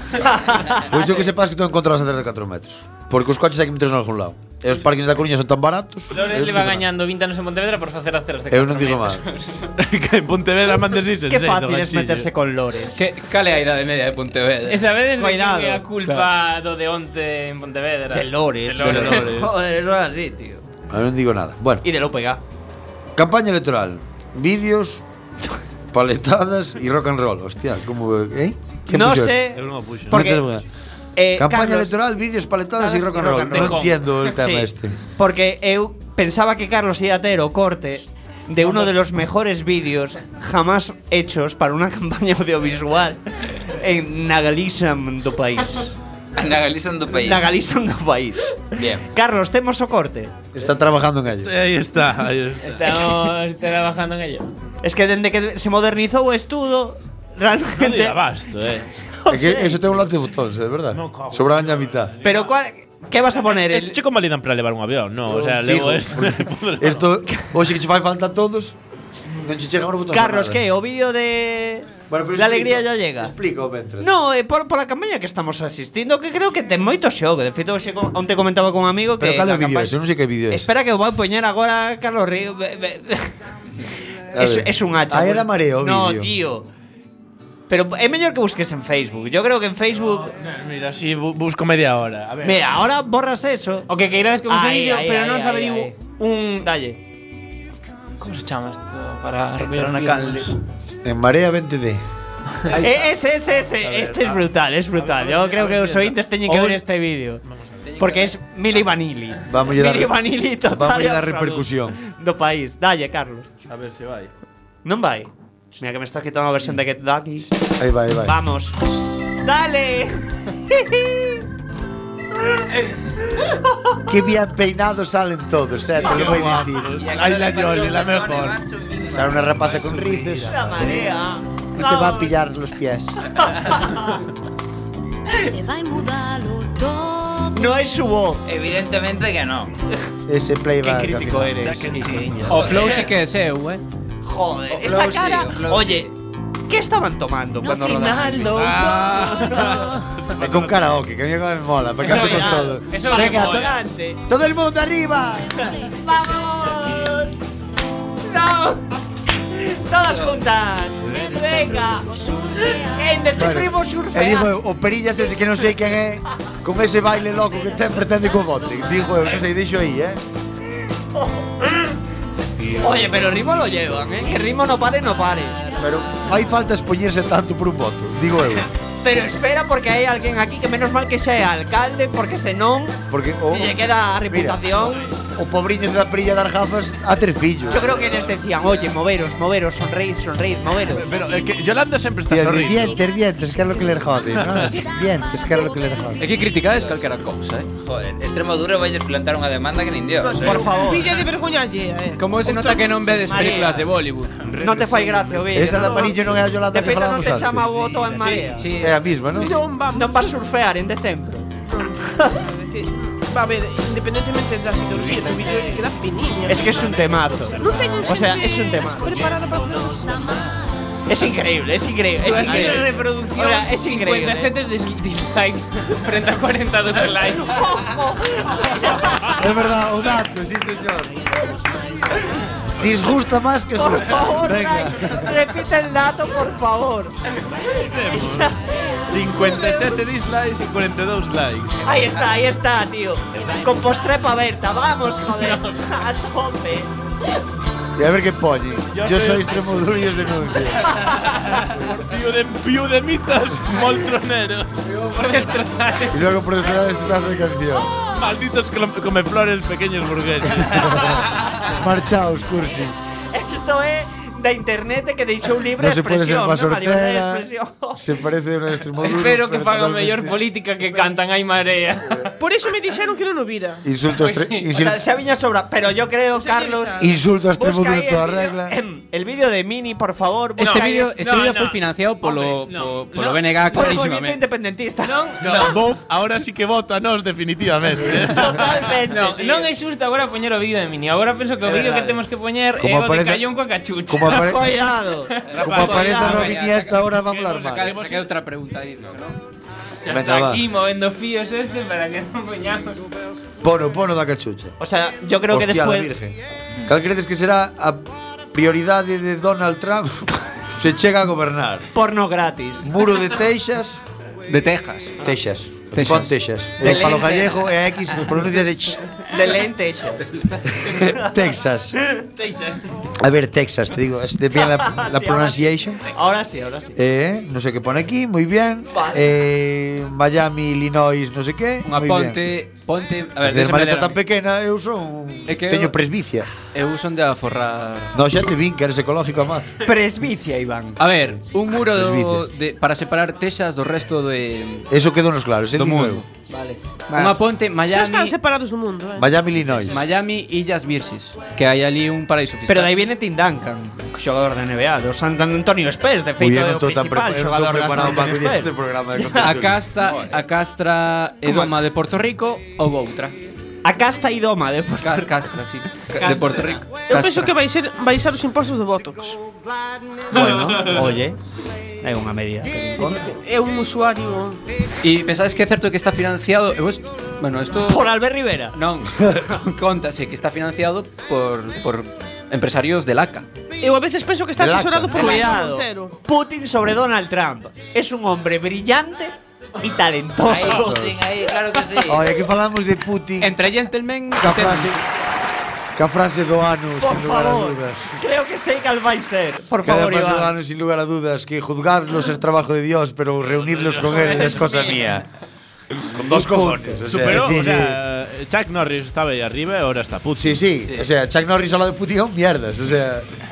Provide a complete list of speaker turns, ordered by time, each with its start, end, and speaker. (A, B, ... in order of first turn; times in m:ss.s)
0:00.2-0:01.3 A
0:00.9-0:06.8 B
0:06.1-0:09.7 C
0:08.5-0:09.2 B
0:09.8-0:12.3 D
0:11.3-0:13.0 A
0:12.9-0:14.8 E
0:14.7-0:19.4 C
0:15.2-0:15.9 A
0:18.1-0:20.6 A
0:18.8-0:19.5 D
0:18.8-0:19.3 B
0:20.9-0:21.8 B
0:21.8-0:22.4 A
0:23.2-0:25.0 B
0:25.9-0:30.7 B
0:28.9-0:30.4 A
0:29.6-0:30.2 D
0:31.2-0:31.9 A
0:31.4-0:35.0 B
0:32.8-0:45.9 A
0:33.5-0:34.2 C
0:46.4-0:47.5 F
0:47.1-0:50.4 A
0:48.8-0:49.0 F
0:50.5-0:51.5 B
0:51.4-0:53.2 D
0:52.6-0:54.5 C
0:54.8-0:58.2 A
0:57.8-0:58.9 D
0:59.1-0:59.9 A
0:59.3-1:02.1 B
1:00.9-1:02.6 D
1:02.2-1:04.0 A
1:03.5-1:07.1 D
1:05.3-1:08.8 B
1:09.3-1:10.6 B
1:10.1-1:13.3 A
1:12.1-1:14.1 B
1:14.0-1:19.9 A
1:19.2-1:20.7 B
1:20.5-1:23.4 A
1:24.3-1:26.7 A
1:24.3-1:26.3 B
1:27.7-1:30.4 A
1:30.0-1:32.7 D
1:32.4-1:33.9 A
1:33.9-1:36.7 C
1:34.5-1:36.0 A
1:36.6-1:37.0 A
1:38.2-1:40.6 C
1:39.8-1:40.2 E
1:41.0-1:42.0 B
1:42.8-1:47.4 A
1:43.8-1:46.8 D
1:47.8-1:48.3 F
1:48.0-1:53.5 A
1:49.5-1:52.0 B
1:53.7-1:54.3 D
1:54.8-1:57.5 A
1:57.8-1:58.4 B
1:58.2-1:58.8 A
1:59.4-2:01.4 A
2:03.4-2:04.0 A
2:04.1-2:06.9 B
2:06.0-2:08.6 D
2:06.1-2:06.6 A
2:07.0-2:09.9 F
2:09.1-2:11.1 B
2:09.8-2:10.4 D
2:10.4-2:12.4 A
2:11.8-2:13.2 B
2:13.4-2:14.2 A
2:15.5-2:18.0 G
2:17.6-2:18.4 A
2:18.5-2:19.7 F
2:20.3-2:22.0 B
2:20.8-2:23.0 A
2:22.4-2:23.8 E
2:22.5-2:23.1 F
2:24.2-2:26.1 A
2:24.7-2:26.1 F
2:26.7-2:29.9 A
2:27.9-2:29.3 H
2:28.5-2:30.9 D
2:30.4-2:33.7 B
2:32.0-2:34.2 A
2:32.8-2:33.8 C
2:34.3-2:35.7 B
2:35.8-2:36.4 G
2:35.8-2:37.3 A
2:38.3-2:38.9 A
2:39.5-2:42.1 A
2:41.1-2:43.1 G
2:42.7-2:44.5 A
2:43.3-2:50.2 B
2:51.1-2:51.7 A
2:52.8-2:55.6 A
2:55.8-2:58.7 B
2:59.0-3:05.1 A
3:03.1-3:04.7 B
3:05.4-3:07.9 B
3:07.7-3:11.1 A
3:07.8-3:08.9 F
3:10.9-3:13.0 D
3:12.3-3:16.3 B
3:14.3-3:14.7 D
3:16.2-3:17.7 E
3:17.8-3:20.7 F
3:20.2-3:23.4 H
3:20.3-3:21.2 A
3:22.2-3:24.3 E
3:23.3-3:23.9 A
3:24.5-3:25.5 D
3:24.6-3:28.9 A
3:25.5-3:27.7 B
3:28.1-3:28.6 D
3:28.3-3:28.9 E
3:28.7-3:29.6 B
3:29.4-3:30.3 H
3:29.9-3:31.5 A
3:31.7-3:40.5 H
3:32.1-3:32.4 A
3:36.5-3:39.3 A
3:40.0-3:40.6 G
3:41.1-3:44.5 A
3:42.2-3:47.8 C
3:47.5-3:49.6 A
3:49.4-3:52.0 B
3:52.8-3:55.4 B
3:53.8-3:57.2 A
3:57.8-3:58.5 D
3:58.0-3:58.7 A
3:59.1-4:01.9 D
3:59.4-4:00.0 A
4:01.8-4:06.9 A
4:08.0-4:11.0 B
4:08.9-4:09.8 D
4:10.9-4:14.7 D
4:14.8-4:16.3 C
4:16.1-4:17.9 B
4:17.7-4:18.4 A
4:18.2-4:21.2 D
4:20.5-4:23.0 B
4:23.3-4:28.0 A
4:25.8-4:30.4 B
4:29.0-4:32.3 C
4:32.4-4:33.8 H
4:33.8-4:35.0 B
4:34.1-4:34.8 C
4:34.7-4:41.1 A
4:36.4-4:37.0 H
4:37.0-4:38.8 B
4:40.6-4:43.8 C
4:40.6-4:44.4 E
4:43.7-4:45.7 A
4:45.0-4:45.9 C
4:45.4-4:48.8 D
4:48.3-4:49.7 A
4:49.1-4:54.6 C
4:51.6-4:52.2 A
4:52.8-4:53.4 B
4:54.1-4:54.7 B
4:54.3-4:56.6 A
4:55.3-4:55.6 C
4:55.5-4:56.6 D
4:55.6-4:57.9 B
4:55.8-4:57.0 E
4:57.2-4:58.3 D
4:57.5-4:59.4 E
5:00.0-5:03.0 C
5:00.1-5:00.6 B
5:03.6-5:04.8 B
5:04.8-5:06.1 A
5:05.5-5:11.9 B
5:11.9-5:12.9 A
5:12.8-5:14.0 B
5:14.5-5:15.1 E
5:15.2-5:19.0 B
5:15.9-5:16.3 E
5:16.8-5:17.7 A
5:19.3-5:20.4 A
5:20.8-5:22.0 B
5:21.0-5:21.3 A
5:22.4-5:22.8 C
5:23.2-5:26.0 B
5:24.5-5:27.0 A
5:27.0-5:32.4 B
5:28.9-5:29.2 A
5:31.8-5:34.2 E
5:33.4-5:36.5 B
5:35.5-5:36.0 E
5:36.7-5:38.1 E
5:38.1-5:39.8 B
5:39.8-5:41.0 A
5:41.0-5:44.9 E
5:41.7-5:42.5 B
5:44.9-5:46.2 B
5:45.8-5:46.3 E
5:46.5-5:47.4 A
5:47.1-5:48.4 E
5:47.9-5:49.4 H
5:49.2-5:50.0 B
5:49.9-5:53.0 E
5:52.7-5:59.5 A
5:56.4-5:59.9 B
5:59.4-6:03.4 E
6:00.0-6:00.4 F
6:03.8-6:05.4 A
6:05.0-6:07.6 E
6:06.2-6:06.8 C
6:07.1-6:09.4 H
6:10.3-6:11.4 A
6:12.0-6:13.2 A
6:13.0-6:13.2 E
6:13.0-6:14.6 H
6:15.0-6:18.1 E
6:17.8-6:18.8 A
6:18.7-6:23.5 E
6:23.8-6:26.2 H
6:24.6-6:25.5 B
6:25.1-6:31.1 A
6:30.4-6:32.4 F
6:30.6-6:31.2 B
6:32.1-6:33.6 B
6:33.4-6:35.0 E
6:34.4-6:35.0 B
6:36.0-6:38.2 B
6:37.0-6:40.5 A
6:39.8-6:45.3 B
6:43.5-6:44.7 D
6:44.0-6:45.1 A
6:46.1-6:48.0 B
6:46.3-6:47.0 A
6:47.0-6:50.6 D
6:50.4-6:53.3 B